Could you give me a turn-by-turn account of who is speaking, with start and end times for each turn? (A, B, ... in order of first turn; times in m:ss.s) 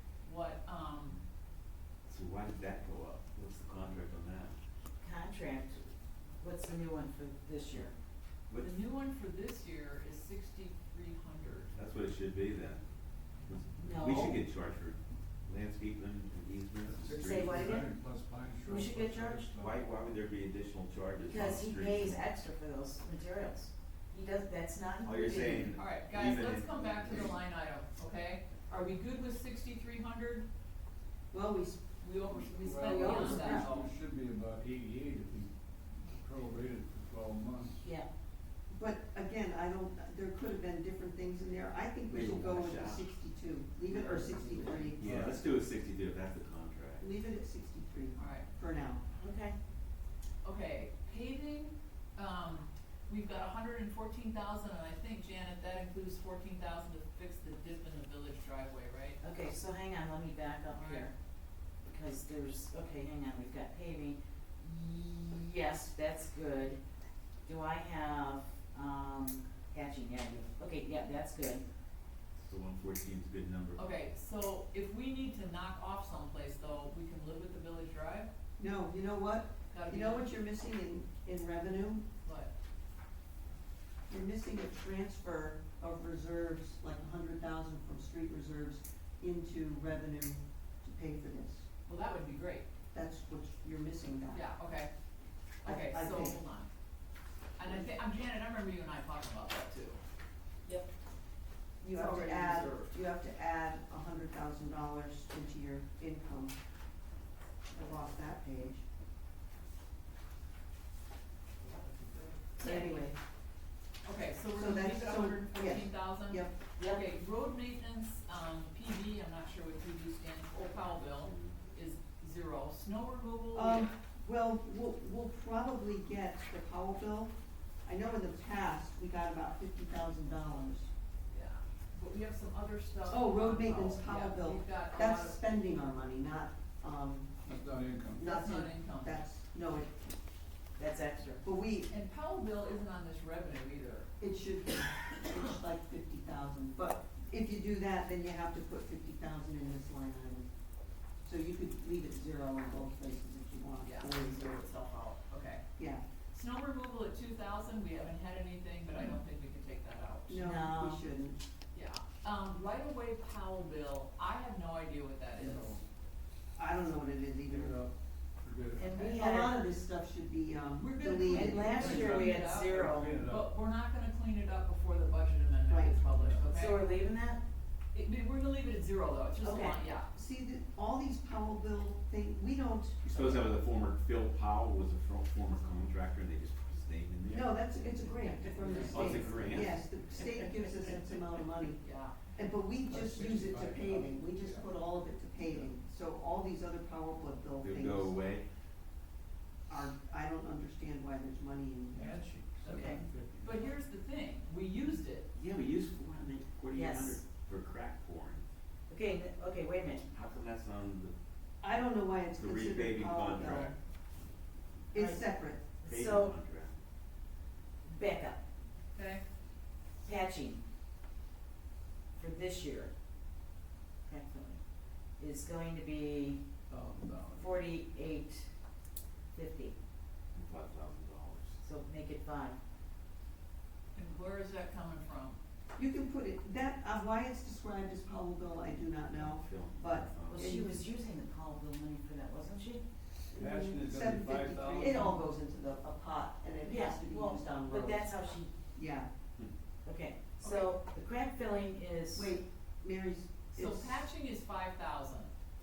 0:00.2-0:01.2 A
0:02.1-0:04.5 B
0:05.0-0:05.9 C
0:06.4-0:07.9 C
0:08.5-0:08.8 B
0:08.6-0:11.7 A
0:11.7-0:12.8 B
0:13.5-0:17.7 B
0:13.8-0:14.4 C
0:16.8-0:19.8 D
0:17.1-0:17.9 C
0:18.6-0:19.4 C
0:19.6-0:22.2 B
0:21.2-0:25.8 C
0:25.0-0:27.3 B
0:25.8-0:30.4 A
0:31.3-0:33.7 E
0:32.0-0:33.9 A
0:32.6-0:37.8 D
0:32.9-0:33.7 C
0:38.7-0:45.4 E
0:42.0-0:43.0 B
0:43.9-0:47.0 B
0:45.0-0:45.4 D
0:47.0-0:49.0 E
0:48.2-0:48.4 A
0:49.2-0:49.6 C
0:50.4-0:59.2 A
0:59.2-1:01.1 C
1:00.7-1:01.0 A
1:01.8-1:06.8 C
1:07.4-1:11.6 C
1:12.4-1:13.8 B
1:13.8-1:18.3 A
1:18.6-1:22.0 E
1:19.7-1:20.3 A
1:22.2-1:22.5 A
1:24.1-1:31.6 E
1:31.8-1:32.6 A
1:32.9-1:34.4 E
1:34.3-1:34.9 A
1:35.6-1:36.4 E
1:35.6-1:36.7 A
1:37.6-1:40.0 A
1:41.8-1:46.6 E
1:41.9-1:42.9 A
1:47.7-1:48.8 E
1:52.0-1:53.0 A
1:52.6-1:53.2 E
1:54.0-2:03.9 A
1:54.5-1:56.6 E
2:01.2-2:01.5 B
2:03.5-2:07.3 E
2:07.8-2:10.9 E
2:11.3-2:15.5 A
2:13.0-2:17.3 E
2:17.4-2:18.2 D
2:18.2-2:19.9 E
2:18.2-2:19.2 A
2:20.8-2:21.4 C
2:21.4-2:21.9 E
2:21.9-2:24.1 A
2:24.2-2:30.5 E
2:31.2-2:34.6 E
2:33.8-2:35.6 A
2:35.8-2:36.0 E
2:36.3-2:40.4 A
2:40.3-2:41.4 E
2:40.4-2:41.0 C
2:41.7-2:45.8 A
2:45.4-2:45.8 D
2:46.6-2:47.8 E
2:47.4-2:48.9 D
2:48.8-2:49.6 C
2:48.8-2:49.2 A
2:49.1-2:52.2 E
2:50.8-2:56.8 A
2:51.2-2:53.2 C
2:51.6-2:53.5 D
2:55.7-2:56.0 E
2:56.1-2:56.5 D
2:56.5-2:57.4 C
2:57.9-3:00.1 A
2:59.4-2:59.8 C
3:00.1-3:03.6 E
3:03.0-3:07.9 B
3:07.3-3:11.8 E
3:08.5-3:09.6 A
3:08.6-3:09.7 D
3:08.8-3:11.2 B
3:11.8-3:12.1 A
3:12.3-3:18.2 E
3:12.8-3:14.7 D
3:15.4-3:15.7 D
3:17.6-3:18.4 B
3:19.7-3:22.1 E
3:21.9-3:23.8 D
3:22.6-3:25.3 A
3:22.6-3:23.0 C
3:25.3-3:28.4 B
3:26.7-3:27.2 C
3:28.9-3:30.1 C
3:30.1-3:31.1 B
3:31.6-3:33.7 E
3:32.4-3:33.7 B
3:34.9-3:35.7 E
3:34.9-3:36.3 C
3:35.8-3:36.8 B
3:37.8-3:38.4 C
3:38.9-3:39.2 A
3:40.0-3:40.6 C
3:42.2-3:42.9 C
3:44.0-3:44.6 C
3:45.2-3:46.4 C
3:46.7-3:47.6 D
3:47.4-3:48.5 C
3:49.3-3:49.7 C
3:50.3-3:51.6 B
3:51.6-3:52.6 C
3:53.9-3:55.4 A
3:55.8-4:00.8 E
3:59.1-4:00.6 B
4:00.3-4:02.8 C
4:03.3-4:08.1 E
4:03.3-4:05.2 D
4:06.6-4:08.5 C
4:08.7-4:09.1 E
4:09.8-4:12.4 C
4:10.4-4:10.7 A
4:12.1-4:14.0 E
4:13.5-4:15.3 A